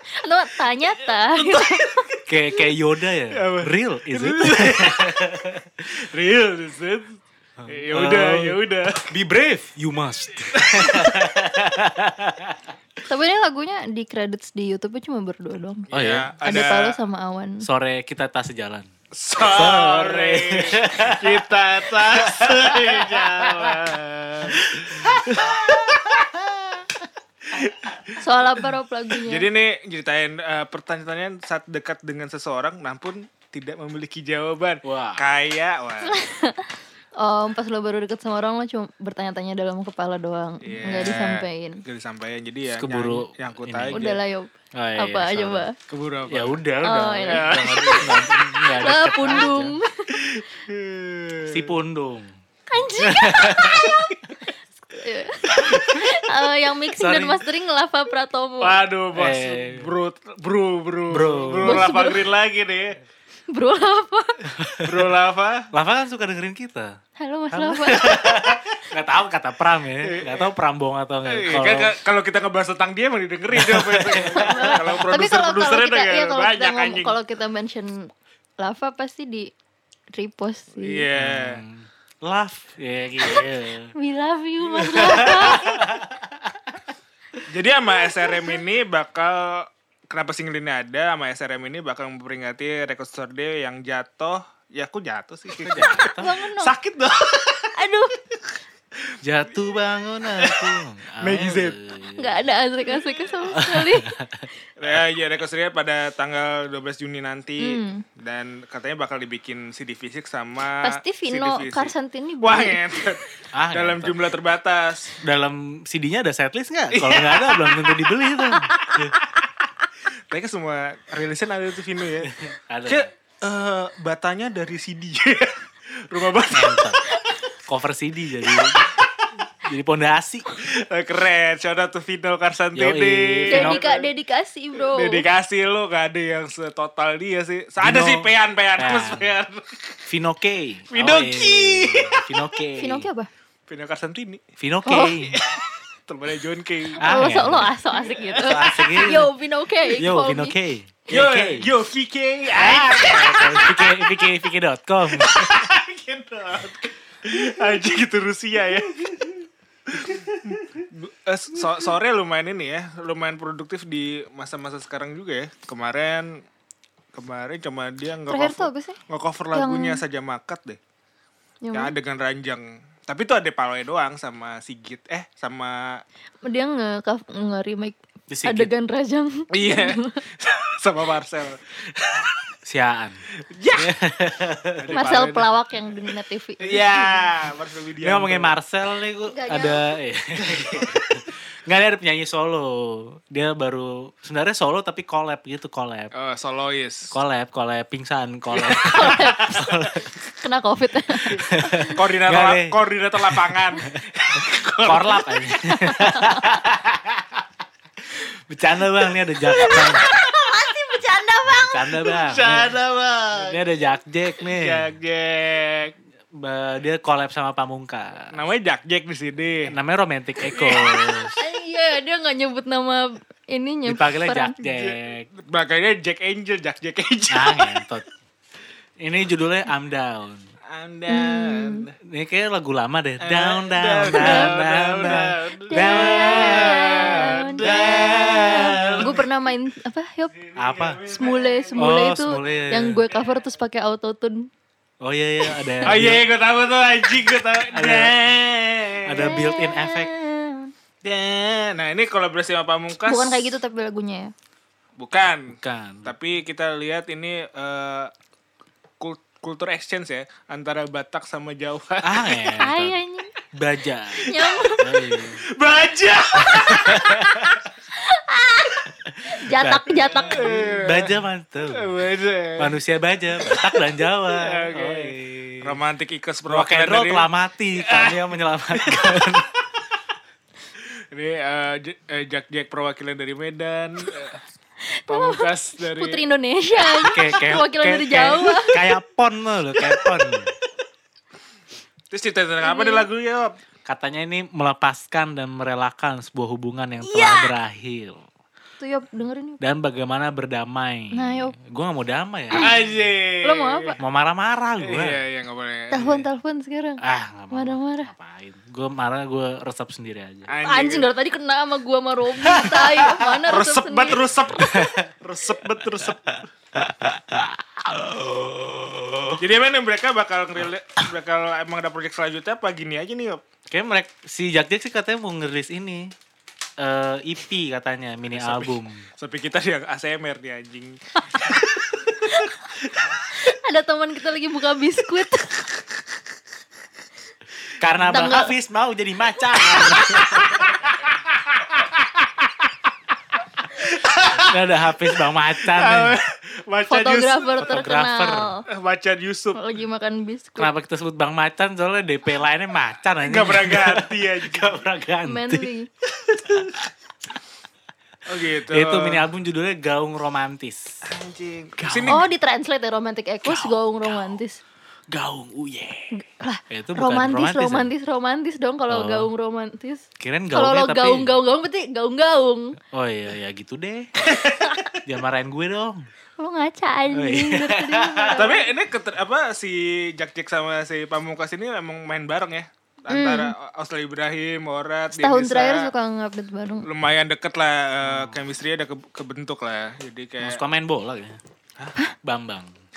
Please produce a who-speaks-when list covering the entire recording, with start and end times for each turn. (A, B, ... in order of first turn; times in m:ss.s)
0:00.1-0:02.1 A
0:01.0-0:02.2 B
0:02.3-0:05.8 C
0:03.3-0:05.3 B
0:05.8-0:09.1 B
0:07.6-0:08.6 C
0:09.1-0:12.7 C
0:10.5-0:11.1 B
0:13.1-0:15.9 A
0:15.9-0:17.0 B
0:15.9-0:16.3 C
0:16.4-0:17.6 A
0:17.6-0:18.9 C
0:19.1-0:26.2 B
0:19.4-0:21.4 C
0:22.0-0:23.8 C
0:24.6-0:25.7 C
0:27.5-0:28.0 B
0:28.2-0:29.5 A
0:29.2-0:36.2 B
0:34.8-0:35.2 C
0:36.0-0:41.8 A
0:40.6-0:44.2 B
0:42.7-0:44.1 C
0:43.9-0:45.8 A
0:44.7-0:45.7 C
0:45.9-0:46.6 B
0:46.3-0:49.7 C
0:46.8-0:48.0 A
0:47.3-0:48.5 B
0:48.6-0:50.2 A
0:50.1-0:51.8 B
0:51.5-0:52.4 C
0:52.7-0:58.8 A
0:53.0-0:53.9 C
0:55.5-0:56.0 B
0:57.0-0:57.4 C
0:58.6-1:03.0 B
0:59.2-0:59.9 C
1:01.1-1:01.9 C
1:01.6-1:02.2 A
1:03.5-1:04.4 A
1:04.6-1:05.0 C
1:04.8-1:05.7 B
1:05.7-1:07.0 C
1:07.2-1:08.4 A
1:07.5-1:11.9 C
1:10.0-1:10.5 B
1:11.2-1:17.2 B
1:13.5-1:14.8 C
1:14.3-1:19.5 A
1:20.1-1:21.1 A
1:20.8-1:21.6 B
1:21.1-1:23.9 C
1:24.0-1:25.8 A
1:24.8-1:25.8 B
1:24.8-1:26.5 C
1:27.5-1:37.8 B
1:28.0-1:28.6 A
1:35.5-1:36.4 C
1:36.2-1:36.7 A
1:37.8-1:38.2 A
1:39.2-1:42.4 C
1:40.4-1:41.8 B
1:42.2-1:44.1 A
1:43.5-1:44.5 C
1:44.8-1:55.2 B
1:47.6-1:48.0 A
1:50.8-1:53.1 A
1:53.5-1:54.2 C
1:55.2-1:59.2 C
1:56.9-1:58.1 B
2:00.3-2:02.3 B
2:02.2-2:03.1 C
2:02.9-2:06.9 B
2:06.5-2:07.0 C
2:07.1-2:07.4 A
2:07.6-2:08.9 C
2:09.6-2:10.5 C
2:10.6-2:14.1 B
2:12.8-2:13.8 C
2:13.5-2:15.2 A
2:14.8-2:20.0 B
2:17.8-2:19.4 C
2:20.1-2:23.1 C
2:20.9-2:22.6 B
2:22.8-2:23.3 A
2:23.7-2:24.4 B
2:24.6-2:25.4 C
2:24.9-2:25.1 A
2:25.0-2:29.0 B
2:27.0-2:27.7 C
2:27.0-2:30.6 A
2:28.4-2:29.3 C
2:29.9-2:31.7 C
2:31.1-2:34.0 B
2:32.5-2:35.6 C
2:35.1-2:46.4 B
2:47.1-2:50.8 B
2:48.3-2:49.0 A
2:49.5-2:50.0 A
2:51.6-2:51.9 A
2:51.7-2:56.0 B
2:56.4-3:00.2 A
2:58.3-2:58.7 C
2:59.5-3:02.4 B
3:02.6-3:03.2 C
3:03.4-3:04.0 B
3:03.8-3:05.1 C
3:04.8-3:05.5 B
3:04.9-3:07.2 A
3:06.6-3:08.6 B
3:08.0-3:16.1 C
3:09.3-3:10.0 A
3:10.5-3:11.2 B
3:16.1-3:17.1 B
3:17.1-3:20.1 C
3:18.5-3:20.1 B
3:18.8-3:19.7 A
3:20.4-3:21.5 A
3:21.3-3:27.4 C
3:21.8-3:25.6 B
3:25.9-3:26.5 A
3:28.2-3:30.1 C
3:29.5-3:32.2 A
3:31.5-3:32.8 C
3:32.2-3:33.6 B
3:33.3-3:34.9 C
3:34.4-3:35.9 B
3:36.4-3:38.4 C
3:38.3-3:39.8 B
3:39.7-3:41.3 C
3:40.5-3:41.3 B
3:41.4-3:44.6 A
3:43.9-3:45.3 C
3:44.6-3:47.8 B
3:47.3-3:48.1 C
3:49.0-3:50.4 C
3:50.7-3:51.9 B
3:51.1-3:51.8 A
3:52.0-3:59.2 C
3:53.2-3:59.2 B
3:54.1-3:54.5 A
3:55.7-4:00.5 A
4:00.4-4:01.9 B
4:00.6-4:01.0 C
4:01.1-4:04.5 A
4:01.8-4:03.0 C
4:05.0-4:06.2 C
4:05.8-4:09.4 B
4:07.7-4:08.3 C
4:09.0-4:10.1 C
4:09.2-4:10.7 A
4:11.0-4:13.5 B
4:13.1-4:14.3 A
4:15.0-4:18.1 B
4:15.5-4:16.1 C
4:19.0-4:22.5 B
4:22.0-4:23.0 C
4:22.6-4:23.3 A
4:23.5-4:25.4 C
4:24.2-4:24.9 A
4:25.5-4:27.6 B
4:26.5-4:30.6 A
4:26.6-4:27.4 C
4:29.1-4:32.0 C
4:30.3-4:31.2 B
4:31.7-4:32.8 B
4:32.6-4:35.8 C
4:34.3-4:39.1 B
4:36.5-4:39.5 C
4:41.1-4:44.4 B
4:44.9-4:48.9 A
4:45.1-4:46.2 B
4:47.0-4:50.5 C
4:52.1-4:53.6 B
4:52.6-4:53.1 A
4:53.8-4:58.2 C
4:57.0-4:57.5 A
4:58.8-4:59.6 A
4:59.6-5:02.7 C
5:01.1-5:01.5 A
5:02.6-5:04.0 B
5:02.6-5:02.8 A
5:03.4-5:04.0 A
5:04.0-5:05.2 C
5:04.8-5:06.2 B
5:05.9-5:08.1 A
5:07.0-5:10.5 C
5:10.5-5:11.1 B
5:10.6-5:14.2 A
5:12.6-5:16.5 B
5:14.6-5:15.1 C
5:16.0-5:19.4 C
5:19.4-5:23.4 B
5:23.7-5:26.1 C
5:26.8-5:29.1 C
5:28.3-5:32.3 B
5:31.3-5:31.6 A
5:32.2-5:32.6 A
5:33.3-5:35.7 A
5:37.8-5:40.6 C
5:37.9-5:38.2 B
5:38.1-5:38.5 A
5:39.6-5:40.5 A
5:40.6-5:42.6 B
5:43.6-5:44.6 B
5:44.3-5:46.2 C
5:45.6-5:47.8 B
5:46.9-5:48.6 A
5:47.6-5:48.5 C
5:48.7-5:49.6 B
5:49.5-5:50.7 A
5:50.6-5:55.7 C
5:53.2-5:54.8 B
5:55.2-5:55.9 A
5:56.2-5:56.7 B
5:56.4-5:56.9 C
5:58.3-5:59.3 B
5:58.7-6:00.9 C
6:01.1-6:02.2 B
6:01.8-6:02.2 C
6:02.1-6:04.6 A
6:03.4-6:04.4 C
6:05.1-6:06.1 C
6:06.1-6:12.8 A
6:06.7-6:07.9 C
6:08.9-6:09.3 C
6:10.2-6:11.4 C
6:12.9-6:14.1 C
6:14.3-6:15.0 B
6:15.0-6:16.1 C
6:16.4-6:18.7 A
6:17.1-6:18.4 C
6:18.3-6:25.9 B
6:23.1-6:23.5 A
6:25.1-6:26.9 A
6:26.9-6:30.6 B
6:28.0-6:28.4 C
6:30.4-6:31.4 C
6:32.2-6:32.7 C